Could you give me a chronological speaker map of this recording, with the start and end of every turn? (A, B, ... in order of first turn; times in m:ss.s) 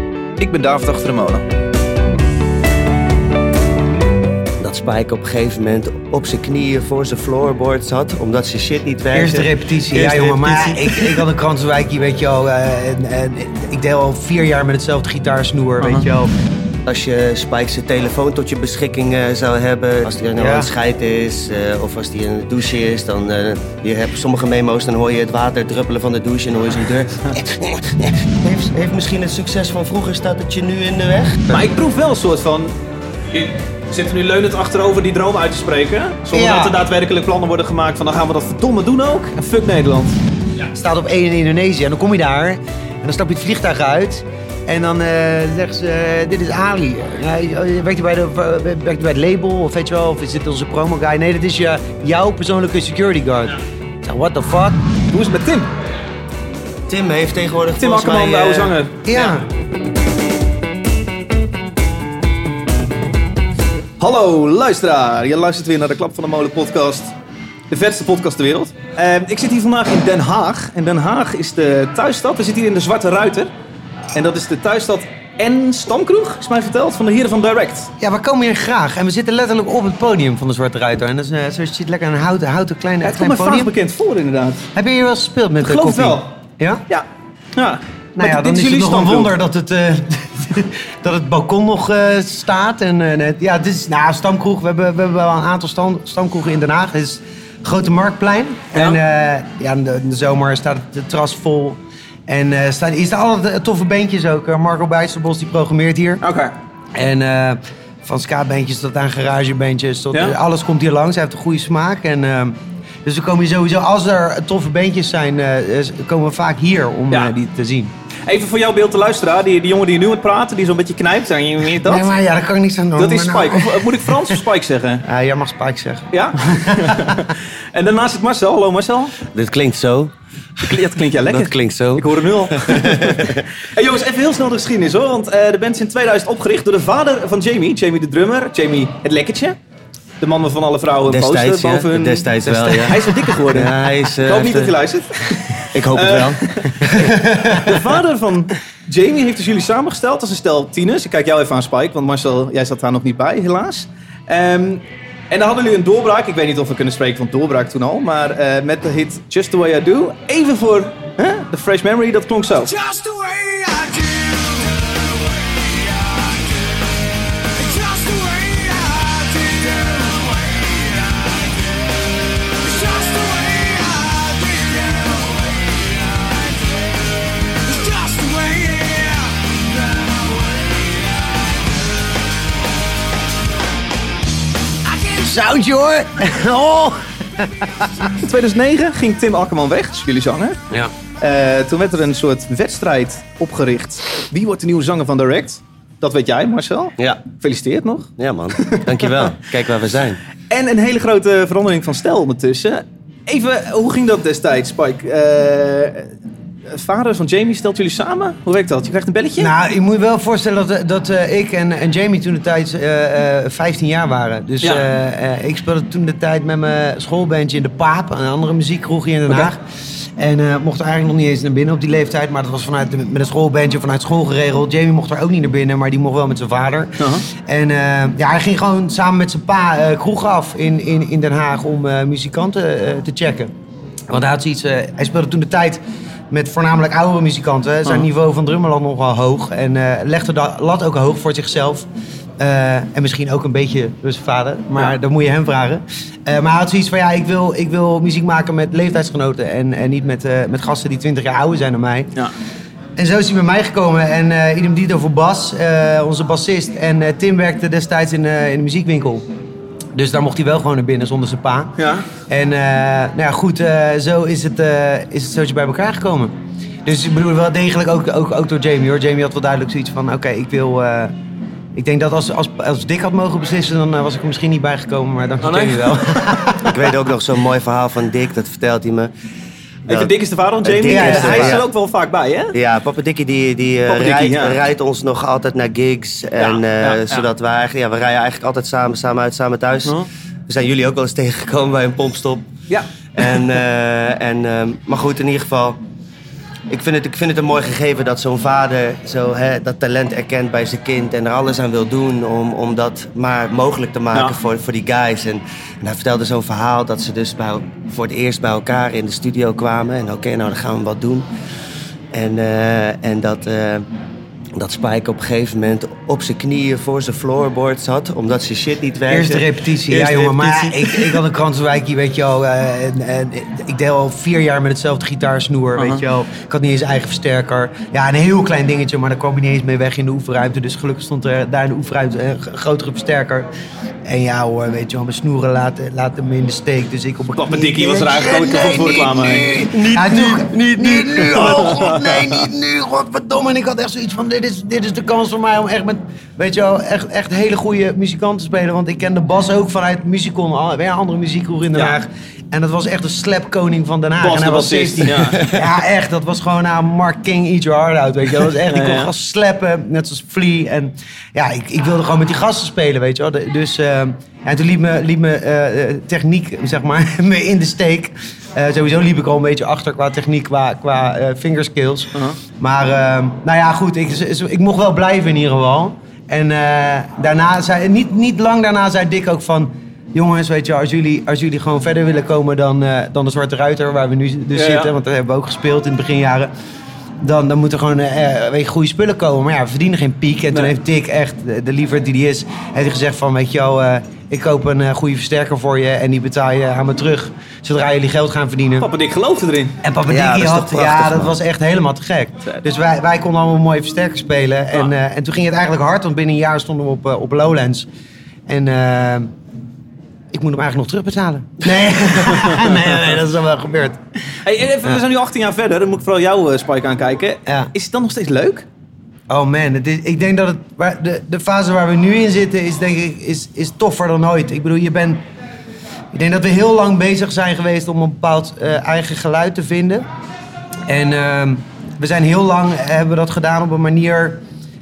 0:00.4-0:01.4 A
0:04.6-0:11.2 B
0:09.1-0:16.3 C
0:16.8-0:31.4 B
0:20.3-0:20.7 C
0:31.5-0:32.7 A
0:33.3-0:40.1 A
0:36.3-0:36.8 C
0:40.7-0:54.8 C
0:55.1-0:55.7 A
0:56.9-0:58.7 B
0:57.8-0:59.0 A
0:59.0-0:59.4 C
1:04.0-1:07.1 A
1:07.7-1:13.5 A
1:14.1-1:17.9 A
1:18.0-1:23.7 C
1:23.0-1:24.7 A
1:24.7-1:26.8 C
1:25.6-1:26.3 A
1:27.6-1:29.3 A
1:28.2-1:46.2 C
1:46.2-1:46.5 A
1:46.9-1:57.9 C
1:58.2-2:02.1 A
2:01.8-2:04.4 C
2:03.0-2:05.0 A
2:05.0-2:07.3 C
2:06.1-2:09.1 A
2:09.3-2:13.4 B
2:10.6-2:19.6 A
2:20.2-2:27.0 A
2:21.1-2:24.7 B
2:25.7-2:27.7 B
2:27.5-2:42.7 A
2:42.7-2:44.8 D
2:47.6-2:51.3 D
2:52.6-2:56.0 D
2:57.6-2:59.3 D
3:00.3-3:00.8 D
3:05.1-3:08.1 C
3:08.2-3:10.6 A
3:11.2-3:18.1 A
3:18.2-3:20.2 B
3:20.5-3:26.1 A
3:26.7-3:29.5 A
3:29.4-3:39.6 C
3:40.2-3:53.5 C
3:47.0-3:47.2 A
3:54.1-4:01.9 C
4:02.4-4:12.1 C
4:13.0-4:19.2 C
4:19.9-4:31.1 C
4:21.8-4:22.1 A
4:31.7-4:36.8 C
4:35.4-4:36.4 A
4:36.7-4:39.1 B
4:39.9-4:41.6 B
4:39.9-4:42.5 A
4:40.8-4:41.6 C
4:42.5-4:50.0 B
4:43.8-4:44.6 A
4:46.4-4:47.3 A
4:50.5-4:52.5 B
4:53.2-4:55.8 B
4:56.7-5:11.3 B
5:12.1-5:13.8 B
5:14.6-5:21.2 B
5:19.1-5:33.5 C
5:25.8-5:26.0 A
5:34.0-6:26.5 C
5:37.4-5:39.7 A
5:39.3-5:41.6 B
5:41.2-5:42.4 A
5:54.2-5:55.4 A
5:58.7-5:59.1 A
6:24.5-6:24.9 A
6:27.2-6:38.9 C
6:38.8-6:39.8 A
6:39.8-6:47.9 C
6:40.1-6:41.3 B
6:48.5-6:49.3 C
6:50.3-6:54.0 C
6:52.2-6:52.7 A
6:54.4-6:58.6 A
6:57.4-6:57.7 C
6:59.3-7:05.2 C
7:06.1-7:10.1 C
7:10.9-7:14.4 C